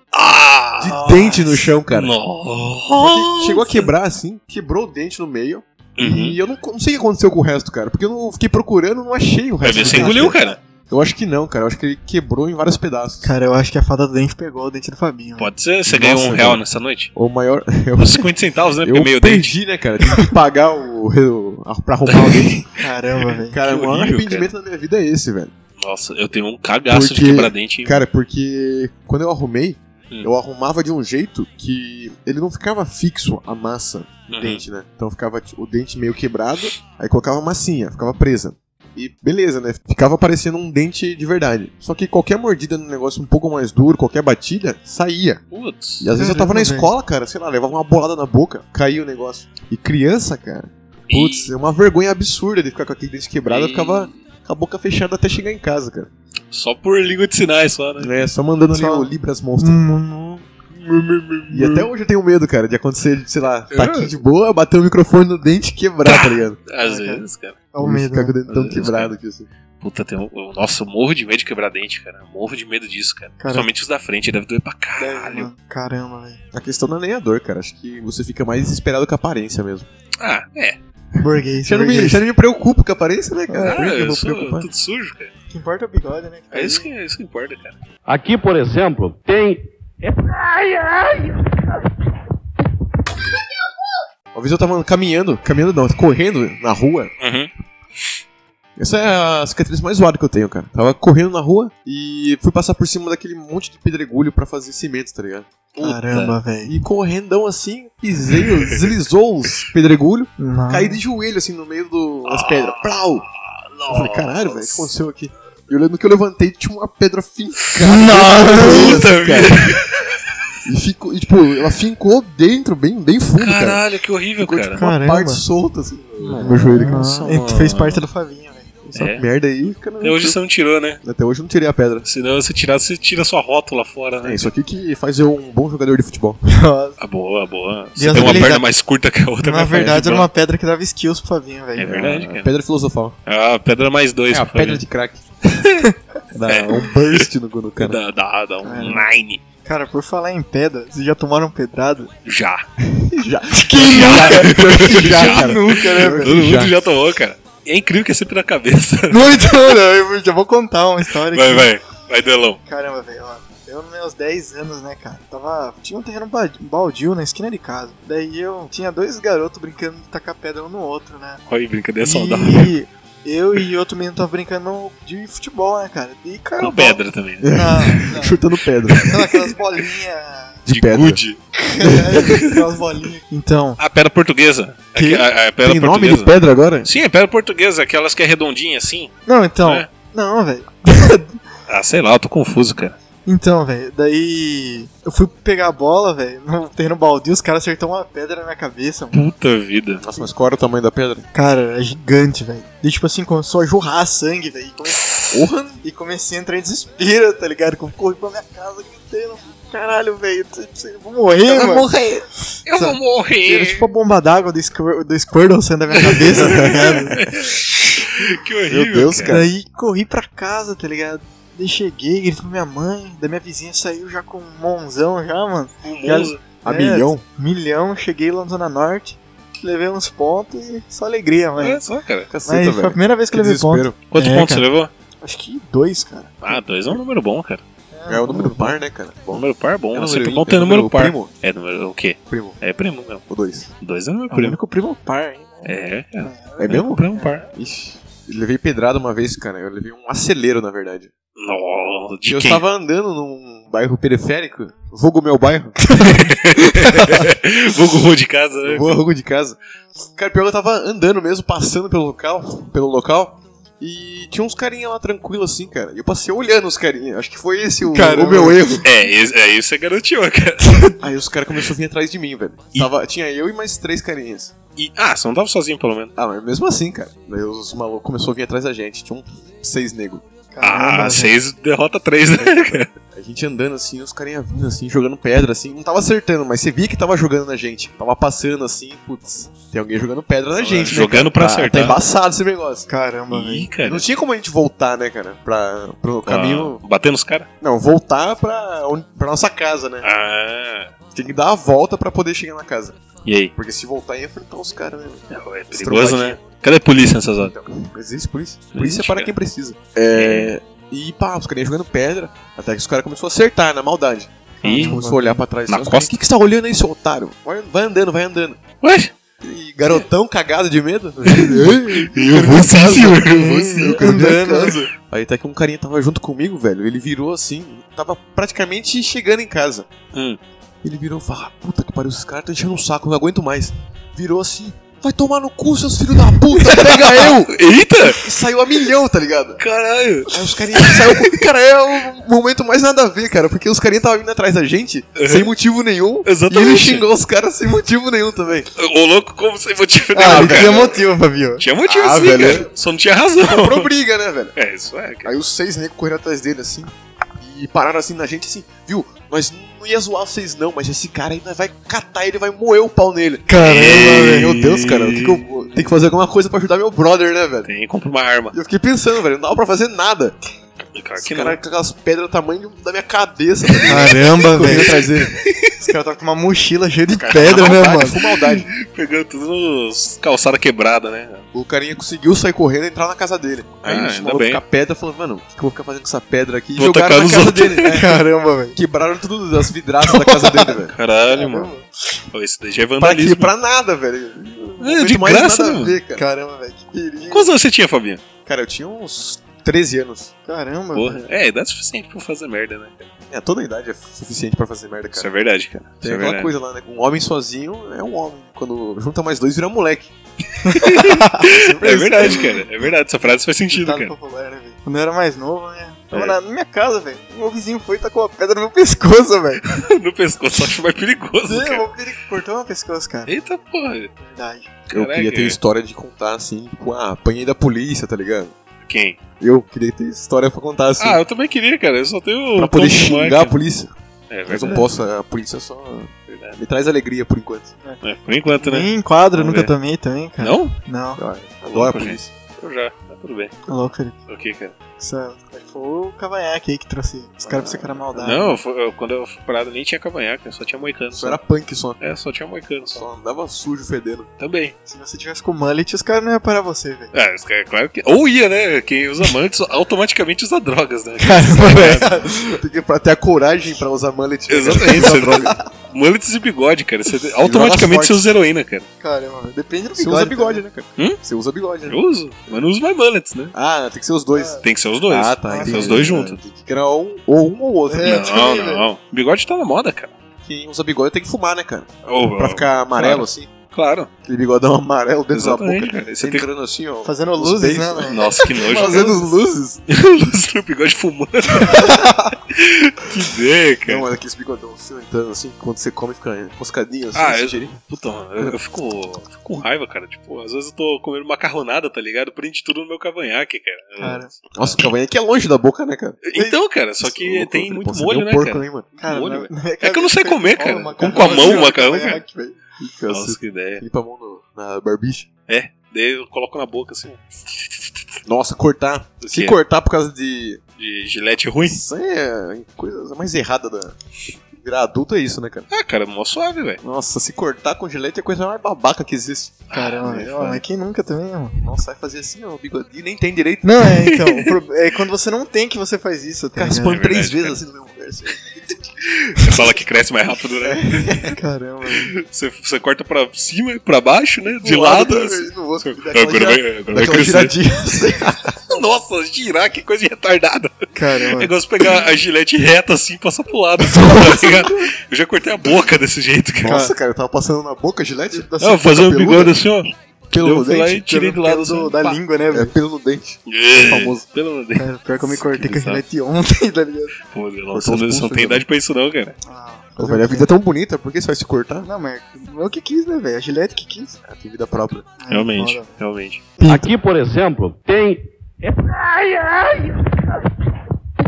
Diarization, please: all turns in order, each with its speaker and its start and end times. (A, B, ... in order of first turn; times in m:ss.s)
0:00.1-0:03.9 A
0:00.8-0:02.1 B
0:00.9-0:01.5 C
0:03.0-0:10.4 B
0:06.0-0:06.4 A
0:09.6-0:10.6 A
0:09.8-0:10.6 C
0:10.9-0:13.3 B
0:13.2-0:15.5 C
0:15.4-0:17.1 A
0:15.8-0:16.6 B
0:17.1-0:18.3 B
0:18.0-0:19.6 A
0:18.8-0:22.6 B
0:22.1-0:22.7 A
0:22.8-0:23.6 C
0:23.5-0:25.5 B
0:23.6-0:24.5 A
0:25.8-0:28.0 A
0:26.9-0:45.4 B
0:34.3-0:34.6 A
0:45.5-0:46.1 A
0:46.0-0:56.1 B
0:46.2-0:46.9 C
0:51.1-0:51.5 A
0:53.4-0:54.2 A
0:56.5-0:58.2 A
0:58.0-0:59.8 B
0:58.7-1:01.4 C
1:01.5-1:06.6 B
1:03.7-1:04.1 A
1:06.0-1:07.6 A
1:06.8-1:08.4 C
1:07.8-1:09.5 B
1:08.5-1:09.1 A
1:09.8-1:15.5 A
1:13.4-1:13.7 C
1:15.0-1:16.4 C
1:16.5-1:19.9 B
1:20.2-1:20.8 A
1:21.2-1:22.2 C
1:21.6-1:24.7 B
1:23.5-1:23.7 C
1:23.6-1:25.3 A
1:25.5-1:26.9 C
1:26.5-1:27.8 A
1:28.0-1:31.9 D
1:34.3-1:37.1 B
1:37.2-1:37.5 A
1:38.8-1:45.5 B
1:45.8-1:46.4 A
1:45.8-1:46.8 C
1:46.6-1:53.2 B
1:50.4-1:51.0 C
1:52.3-1:54.9 A
1:53.9-1:59.7 B
1:57.8-1:59.0 C
1:58.0-2:00.0 A
2:00.6-2:03.8 B
2:03.4-2:04.8 A
2:04.4-2:07.1 B
2:04.7-2:05.4 C
2:06.2-2:08.0 A
2:06.4-2:08.7 C
2:08.8-2:10.4 B
2:08.9-2:09.2 A
2:10.0-2:11.0 A
2:11.0-2:12.0 B
2:12.0-2:14.5 A
2:14.2-2:16.4 B
2:16.5-2:17.0 C
2:17.0-2:20.3 A
2:18.0-2:18.6 C
2:18.1-2:18.6 B
2:19.4-2:22.0 C
2:21.8-2:22.5 A
2:21.8-2:23.2 B
2:23.2-2:24.8 A
2:24.3-2:25.2 B
2:25.4-2:25.9 A
2:26.3-2:28.0 B
2:26.4-2:27.3 A
2:27.8-2:29.4 A
2:28.6-2:29.1 C
2:29.6-2:32.1 C
2:32.2-2:32.6 A
2:33.0-2:36.8 B
2:33.5-2:36.4 C
2:33.8-2:39.8 A
2:39.1-2:41.7 C
2:41.3-2:42.6 A
2:42.6-2:51.4 C
2:51.5-2:52.7 A
2:52.0-2:57.0 C
2:56.6-2:58.1 A
2:57.4-2:59.3 B
2:57.5-2:58.4 C
2:58.9-2:59.2 A
2:59.1-3:00.6 C
3:00.6-3:01.2 B
3:00.7-3:01.4 A
3:01.6-3:03.8 C
3:01.8-3:02.4 B
3:03.8-3:09.1 A
3:04.9-3:05.2 C
3:05.6-3:06.9 B
3:09.3-3:11.4 C
3:11.7-3:13.0 A
3:13.2-3:19.2 C
3:19.1-3:20.0 A
3:20.0-3:21.2 B
3:21.3-3:25.1 C
3:25.3-3:25.8 B
3:25.8-3:31.9 C
3:31.4-3:32.2 B
3:32.6-3:33.9 A
3:32.7-3:37.2 C
3:36.0-3:39.4 A
3:36.4-3:37.3 B
3:38.7-3:39.5 B
3:39.3-3:51.8 C
3:45.8-3:46.4 A
3:46.1-3:47.2 B
3:51.6-3:52.3 A
3:52.3-3:54.0 B
3:52.5-3:54.7 C
3:54.1-3:54.9 A
3:55.2-3:56.6 C
3:56.4-3:57.6 A
3:57.9-3:58.8 C
3:58.1-4:01.3 B
3:59.3-4:03.2 A
4:02.3-4:02.6 B
4:03.3-4:03.7 B
4:03.8-4:04.6 A
4:04.3-4:07.4 C
4:05.6-4:07.4 A
4:06.6-4:11.1 B
4:11.4-4:12.6 A
4:12.2-4:15.8 B
4:15.8-4:17.2 C
4:16.0-4:19.0 A
4:18.6-4:19.6 B
4:20.2-4:28.8 B
4:27.9-4:28.8 C
4:28.8-4:31.0 A
4:31.0-4:34.5 B
4:34.8-4:36.1 A
4:36.2-4:40.2 B
4:40.5-4:41.4 C
4:40.6-4:42.9 A
4:42.4-4:52.9 B
4:50.6-4:52.0 A
4:52.9-4:53.7 C
4:53.3-4:54.0 A
4:53.8-4:56.8 B
4:56.2-4:57.5 A
4:57.6-5:00.1 B
5:00.0-5:00.9 A
5:01.1-5:03.0 B
5:03.2-5:03.5 A
5:03.5-5:06.4 B
5:05.3-5:07.5 A
5:07.4-5:18.6 B
5:08.7-5:09.3 A
5:10.1-5:10.5 A
5:14.6-5:15.4 C
5:14.6-5:15.0 A
5:15.7-5:16.2 A
5:18.8-5:19.1 A
5:19.4-5:29.9 B
5:21.2-5:24.1 A
5:23.2-5:24.9 C
5:30.1-5:30.4 A
5:30.8-5:39.6 B
5:36.5-5:38.3 A
5:39.6-5:41.4 A
5:40.3-5:48.7 B
5:45.2-5:45.5 A
5:46.2-5:47.0 A
5:48.8-5:50.9 A
5:50.1-5:51.6 C
5:50.2-5:51.0 B
5:51.6-5:53.9 A
5:51.8-5:52.7 B
5:53.4-5:54.5 B
5:54.6-5:55.3 A
5:55.2-6:07.7 B
6:03.5-6:04.6 C
6:03.6-6:05.8 A
6:07.6-6:08.6 A
6:08.5-6:10.4 B
6:10.9-6:11.6 A
6:11.2-6:15.4 B
6:13.7-6:15.8 A
6:13.9-6:14.9 C
6:15.8-6:18.2 C
6:17.1-6:18.7 B
6:17.3-6:21.4 A
6:21.5-6:28.2 B
6:23.8-6:24.6 A
6:26.8-6:28.0 A
6:27.9-6:28.8 C
6:28.7-6:31.0 B
6:30.0-6:30.8 C
6:30.9-6:31.7 A
6:31.3-6:32.2 C
6:32.3-6:33.5 A
6:33.0-6:36.2 B
6:34.8-6:36.0 A
6:36.1-6:37.5 C
6:37.3-6:38.2 A
6:38.4-6:40.3 B
6:40.4-6:41.2 C
6:40.9-6:43.1 A
6:43.3-6:45.3 B
6:45.1-6:46.5 A
6:46.0-6:50.1 B
6:50.6-6:52.6 C
6:50.7-6:54.1 A
6:51.5-6:52.4 B
6:53.7-6:59.6 C
6:59.6-7:01.8 A
7:01.4-7:03.3 C
7:03.3-7:04.1 A
7:04.2-7:04.7 C
7:04.9-7:05.6 A
7:04.9-7:08.5 B
7:08.8-7:09.2 A
7:09.4-7:11.2 B
7:11.0-7:13.6 A
7:12.6-7:13.9 B
7:14.3-7:14.9 A
7:14.5-7:17.7 B
7:16.3-7:16.6 A
7:18.0-7:19.7 A
7:18.6-7:21.2 C
7:20.4-7:20.7 A
7:21.2-7:22.3 B
7:21.6-7:23.6 A
7:23.7-7:24.2 C
7:24.3-7:24.7 A
7:25.0-7:28.6 C
7:27.4-7:28.3 B
7:28.2-7:31.4 A
7:31.1-7:32.0 B
7:32.0-7:33.0 A
7:32.9-7:34.3 B
7:34.4-7:34.7 A
7:34.9-7:37.1 C
7:37.1-7:42.1 A
7:41.2-7:42.6 C
7:42.2-7:45.6 B
7:44.5-7:48.9 A
7:47.4-7:48.3 B
7:49.0-7:50.6 C
7:49.9-7:52.0 B
7:51.8-7:53.5 A
7:53.5-7:58.2 B
7:54.3-7:54.6 C
7:54.6-7:56.4 A
7:55.5-7:56.1 C
7:57.9-7:58.8 C
7:58.0-8:00.1 A
8:00.4-8:03.5 B
8:02.0-8:04.1 A
8:04.2-8:09.8 B
8:05.3-8:06.5 A
8:07.0-8:08.2 C
8:08.1-8:09.3 A
8:09.9-8:14.1 A
8:11.7-8:12.0 C
8:13.8-8:17.8 B
8:17.1-8:24.7 A
8:24.0-8:24.3 C
8:24.5-8:26.2 B
8:26.2-8:32.2 A
8:27.0-8:28.9 B
8:29.0-8:32.6 C
8:31.0-8:31.7 B
8:32.8-8:35.3 B
8:33.1-8:33.8 A
8:35.5-8:37.9 A
8:38.2-8:40.6 B
8:39.2-8:39.6 A
8:40.8-8:41.8 A
8:41.6-8:44.0 B
8:44.6-8:45.7 B
8:45.7-8:46.8 A
8:46.8-8:50.6 B
8:49.7-8:50.2 A
8:49.7-8:51.6 C
8:51.6-8:53.8 B
8:53.6-8:57.0 C
8:54.0-8:54.5 A
8:56.5-8:59.6 B
8:56.8-8:57.6 A
8:59.3-9:01.3 A
9:00.6-9:01.4 B
9:01.4-9:02.1 C
9:02.0-9:07.5 A
9:04.4-9:08.6 B
9:08.7-9:16.8 A
9:10.9-9:11.5 C
9:13.9-9:14.7 C
9:16.6-9:19.6 B
9:16.6-9:16.9 C
9:18.3-9:18.9 C
9:18.6-9:22.2 A
9:20.3-9:21.0 B
9:21.0-9:22.7 C
9:22.5-9:24.2 B
9:23.5-9:26.0 A
9:24.8-9:27.1 C
9:27.3-9:29.4 A
9:27.7-9:28.6 B
9:29.4-9:30.5 C
9:30.0-9:31.9 B
9:31.8-9:34.2 C
9:34.2-9:35.1 B
9:35.2-9:35.9 C
9:35.3-9:36.5 A
9:36.6-9:36.9 C
9:36.6-9:40.4 D